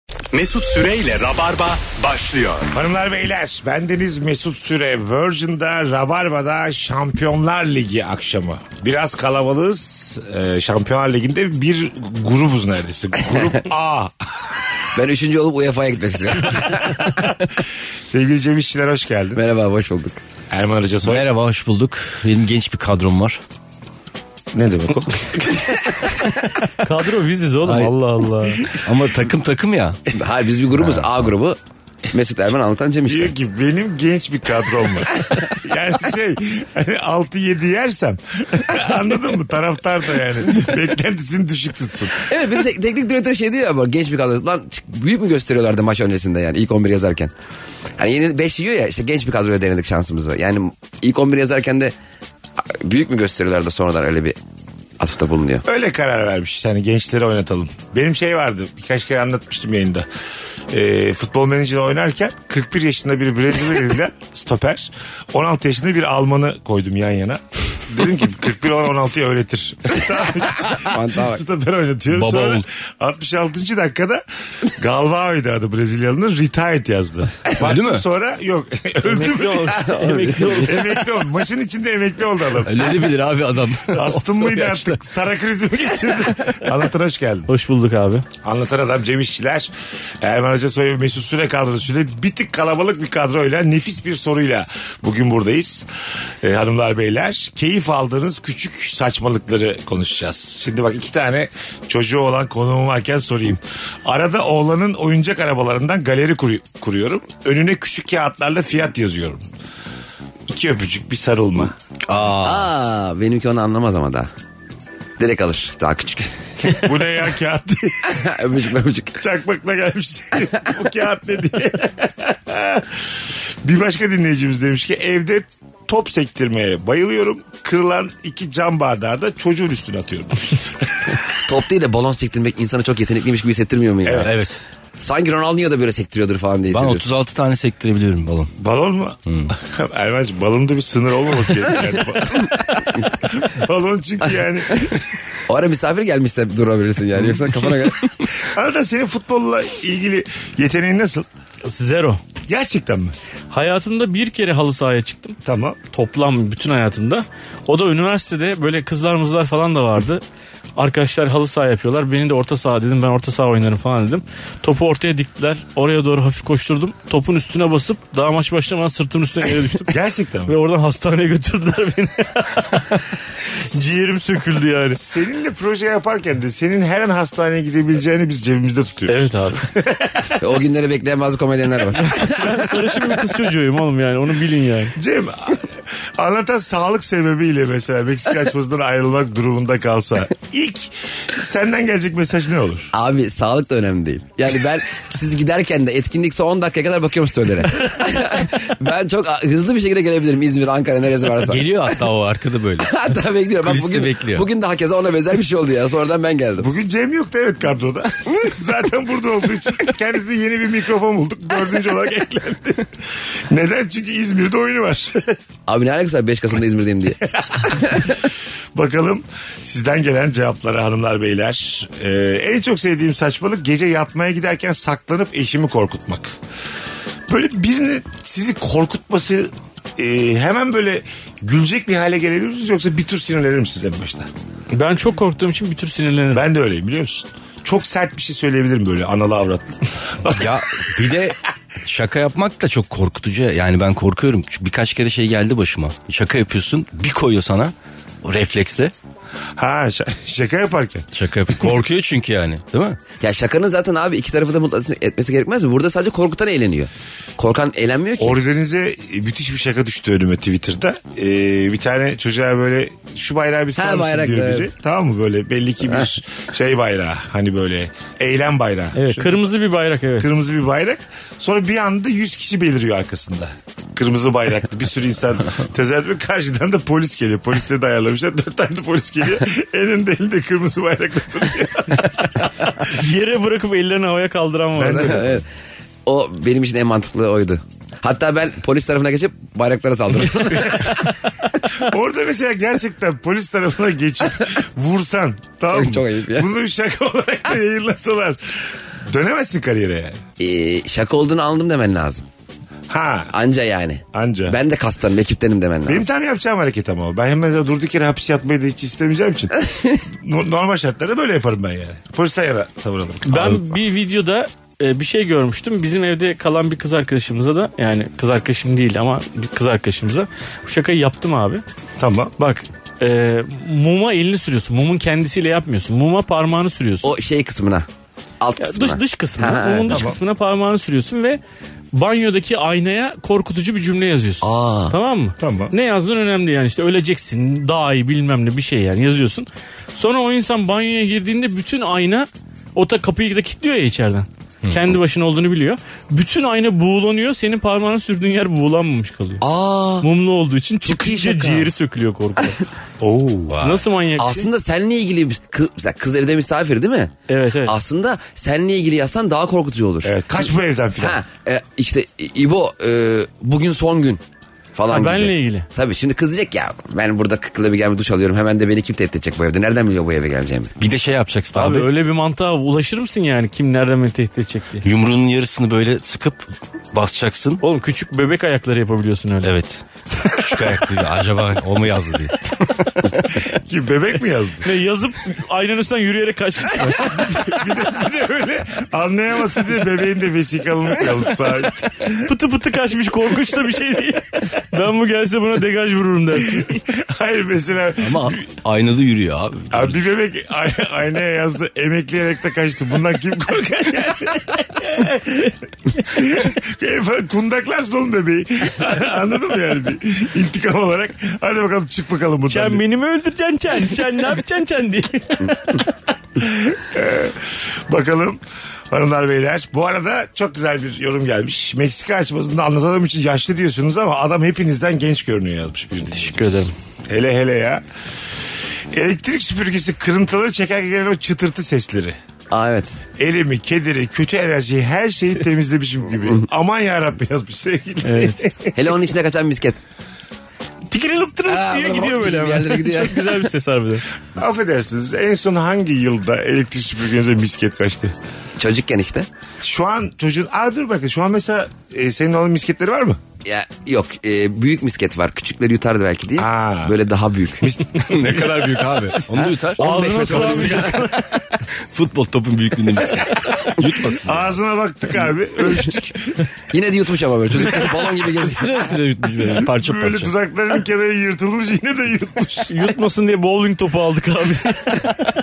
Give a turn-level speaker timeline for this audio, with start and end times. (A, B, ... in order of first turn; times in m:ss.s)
0:00.3-0:02.7 A
0:02.7-0:14.5 B
0:15.0-0:17.2 C
0:16.8-0:19.4 B
0:19.4-0:20.2 C
0:20.5-0:21.3 B
0:21.0-0:23.4 D
0:24.5-0:25.8 B
0:26.8-0:28.7 E
0:27.6-0:27.9 D
0:28.7-0:30.0 D
0:30.1-0:31.6 C
0:32.1-0:33.3 C
0:33.1-0:42.3 B
0:42.2-0:47.3 C
0:48.0-0:51.9 C
0:52.6-0:54.4 C
0:55.0-0:55.6 C
0:55.6-1:00.1 B
1:00.7-1:19.8 B
1:10.6-1:11.4 C
1:12.1-1:12.6 D
1:17.6-1:18.0 D
1:19.1-1:20.9 E
1:19.6-1:20.8 C
1:20.6-1:23.0 B
1:22.6-1:25.0 D
1:23.9-1:27.5 B
1:27.5-1:28.3 E
1:28.4-1:35.9 B
1:36.4-1:49.4 B
1:50.5-1:51.8 B
1:52.1-1:52.7 D
1:52.4-1:54.3 C
1:55.2-1:56.8 C
1:56.6-1:58.3 B
1:58.1-1:59.2 C
1:59.2-2:10.9 B
2:11.4-2:14.4 C
2:14.0-2:14.4 B
2:14.2-2:14.6 D
2:15.0-2:17.1 C
2:16.7-2:18.5 D
2:18.6-2:25.0 B
2:19.3-2:19.5 D
2:25.5-2:28.1 C
2:28.4-2:31.3 B
2:31.6-2:32.2 E
2:32.5-2:33.2 B
2:33.5-2:35.4 E
2:35.4-2:35.8 B
2:35.9-2:40.2 E
2:40.8-2:55.0 E
2:49.9-2:50.6 B
2:54.9-3:00.4 B
2:59.1-2:59.7 E
3:00.4-3:02.4 C
3:01.9-3:05.0 E
3:05.0-3:12.9 B
3:12.9-3:21.7 C
3:21.4-3:22.9 D
3:22.8-3:26.7 C
3:23.6-3:24.5 D
3:26.6-3:35.4 B
3:35.7-3:38.1 C
3:37.2-3:46.4 B
3:47.3-3:54.3 B
3:54.7-3:56.4 E
3:56.3-4:01.2 B
4:00.4-4:08.9 D
4:09.6-4:11.1 B
4:11.1-4:13.0 D
4:13.2-4:18.4 C
4:18.2-4:29.4 B
4:23.8-4:24.7 C
4:29.0-4:30.3 E
4:30.2-4:42.9 B
4:42.8-4:45.4 E
4:44.8-4:45.4 B
4:44.8-4:45.4 C
4:46.1-4:50.9 C
4:50.5-4:51.0 B
4:51.6-5:00.2 B
4:55.7-4:56.5 C
5:00.4-5:02.2 C
5:02.9-5:03.3 B
5:03.3-5:06.1 C
5:04.1-5:04.6 B
5:05.9-5:13.8 B
5:13.2-5:21.6 E
5:22.0-5:22.3 B
5:22.4-5:27.1 E
5:27.0-5:27.9 C
5:28.4-5:30.0 C
5:28.6-5:31.4 E
5:29.9-5:30.2 B
5:31.9-5:49.4 E
5:34.4-5:35.0 C
5:35.4-5:35.7 B
5:49.4-5:50.1 C
5:50.0-5:52.6 E
5:50.8-5:51.7 C
5:53.0-5:53.7 B
5:53.5-5:53.8 D
5:53.6-5:54.5 E
5:54.2-5:57.1 C
5:57.3-5:57.8 E
5:57.6-6:00.2 C
6:00.0-6:01.2 B
6:01.0-6:04.2 C
6:04.8-6:10.7 C
6:04.9-6:05.7 E
6:10.8-6:11.9 D
6:11.5-6:14.8 E
6:14.8-6:17.6 D
6:17.6-6:19.5 E
6:19.4-6:23.2 D
6:20.3-6:20.8 E
6:23.4-6:24.7 B
6:24.6-6:27.7 E
6:27.2-6:32.3 B
6:32.2-6:36.8 E
6:36.5-6:38.4 B
6:38.0-6:40.0 D
6:39.7-6:52.8 B
6:52.5-6:55.9 E
6:56.4-7:07.8 B
7:06.2-7:06.7 D
7:08.9-7:12.2 B
7:12.5-7:13.0 C
7:13.2-7:19.0 B
7:18.0-7:18.4 E
7:18.8-7:19.8 C
7:20.9-7:24.1 E
7:21.5-7:23.4 C
7:24.4-7:28.2 B
7:28.6-7:29.3 C
7:29.6-7:33.2 B
7:33.4-7:37.7 C
7:36.4-7:37.0 B
7:37.6-7:38.8 B
7:38.1-7:40.9 D
7:39.4-7:41.4 E
7:39.8-7:41.2 C
7:41.9-7:44.6 D
7:44.2-7:46.5 B
7:46.7-7:49.0 C
7:48.4-7:50.3 D
7:49.4-7:52.8 B
7:52.7-7:55.3 E